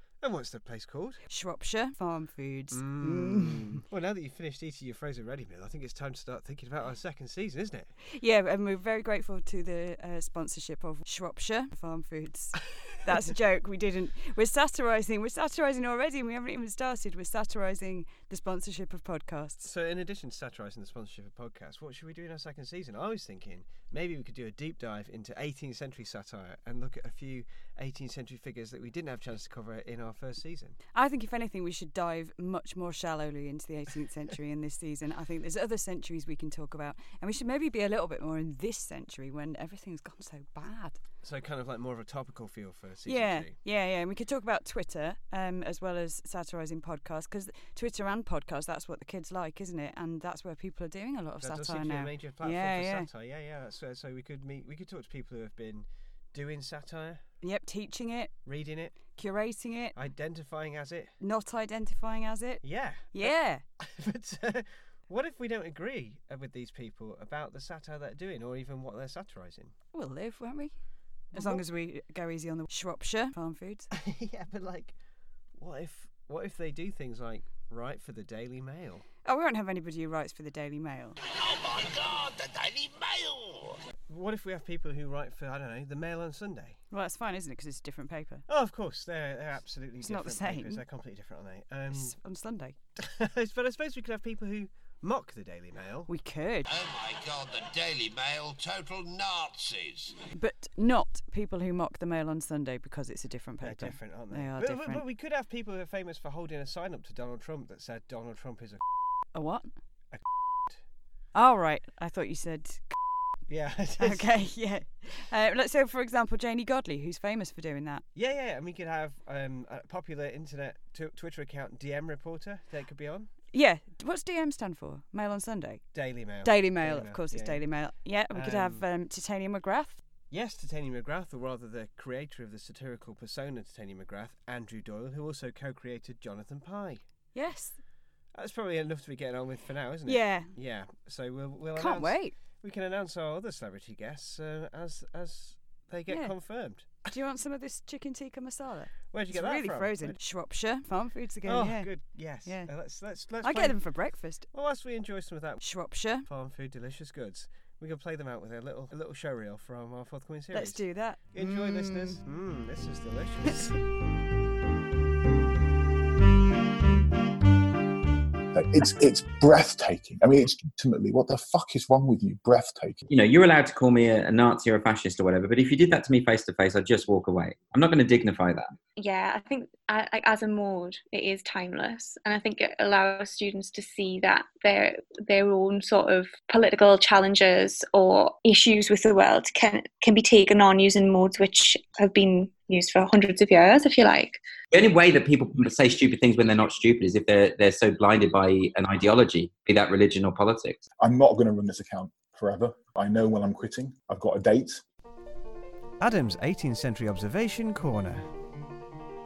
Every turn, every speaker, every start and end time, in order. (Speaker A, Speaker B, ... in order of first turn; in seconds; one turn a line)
Speaker A: 0.2-1.2
Speaker B: 1.3-3.8
Speaker A: 2.7-7.9
Speaker B: 8.1-19.6
Speaker A: 19.6-30.8
Speaker B: 30.9-41.0
Speaker A: 41.2-43.6
Speaker B: 43.0-53.1
Speaker A: 51.4-57.2
Speaker B: 57.4-58.3
Speaker A: 58.4-59.0
Speaker B: 59.1-59.9
Speaker A: 59.9-61.1
Speaker B: 61.2-63.6
Speaker A: 62.6-69.7
Speaker B: 69.9-70.7
Speaker A: 71.3-71.6
Speaker B: 71.3-73.9
Speaker A: 73.9-75.0
Speaker A: 75.5-79.0
Speaker B: 79.2-81.2
Speaker C: 81.4-83.8
Speaker A: 84.1-86.8
Speaker B: 86.9-88.4
Speaker A: 88.5-92.2
Speaker B: 90.0-90.8
Speaker B: 91.9-92.7
Speaker A: 93.0-96.1
Speaker B: 96.1-96.7
Speaker C: 96.7-100.2
Speaker B: 100.3-105.0
Speaker A: 103.6-108.8
Speaker B: 109.3-109.7
Speaker A: 110.1-110.8
Speaker B: 111.3-113.0
Speaker A: 113.5-114.3
Speaker B: 114.0-118.0
Speaker A: 118.1-123.3
Speaker B: 123.5-125.8
Speaker A: 125.9-127.6
Speaker B: 126.4-130.0
Speaker A: 128.3-128.8
Speaker A: 130.3-137.0
Speaker B: 137.3-137.8
Speaker A: 138.3-147.0
Speaker B: 140.1-140.5
Speaker B: 141.7-142.3
Speaker B: 146.1-146.3
Speaker B: 147.1-151.9
Speaker A: 149.1-150.2
Speaker A: 151.4-153.8
Speaker B: 152.4-152.7
Speaker B: 153.4-154.5
Speaker A: 154.5-155.7
Speaker B: 155.6-156.2
Speaker A: 156.2-163.8
Speaker B: 160.5-162.2
Speaker D: 168.5-173.0
Speaker E: 173.1-178.7
Speaker F: 179.0-194.4
Speaker E: 194.7-200.8
Speaker D: 201.0-204.8
Speaker A: 206.0-208.2